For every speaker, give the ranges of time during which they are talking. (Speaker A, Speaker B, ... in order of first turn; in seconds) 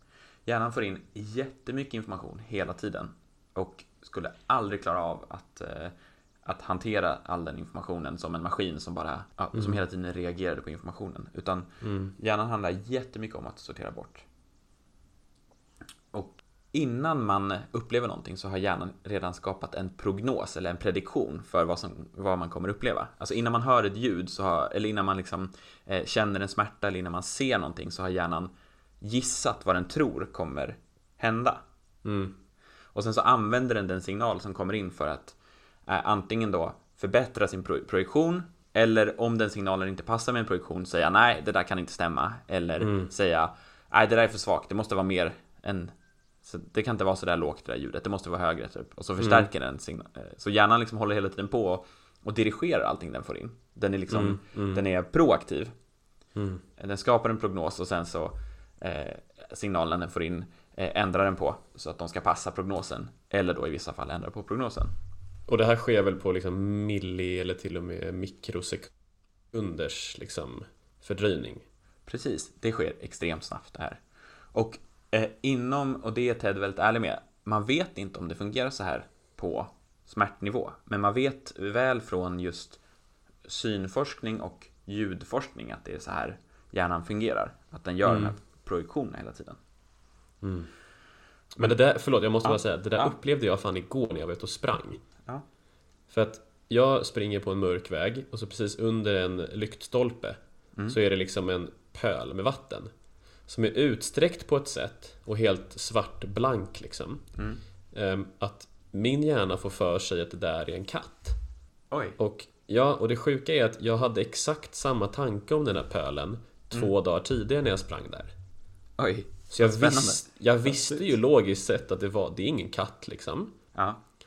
Speaker A: 0.5-5.9, 6.5-14.2, 16.1-31.6, 33.0-35.4, 35.9-45.9, 46.4-55.7, 56.8-64.9, 72.1-74.0, 74.5-82.8, 83.5-89.6, 92.4-93.2, 107.4-107.6, 111.9-112.2, 119.0-120.3, 123.8-124.0
Speaker B: 11.8-12.1, 32.0-32.3, 42.8-43.1, 49.2-49.5, 54.1-54.8, 56.4-56.6, 65.5-68.9, 69.5-71.6, 88.0-88.3, 90.4-90.7, 91.6-95.0, 96.1-102.9, 103.5-107.2, 107.9-111.4, 112.2-118.3, 119.5-123.6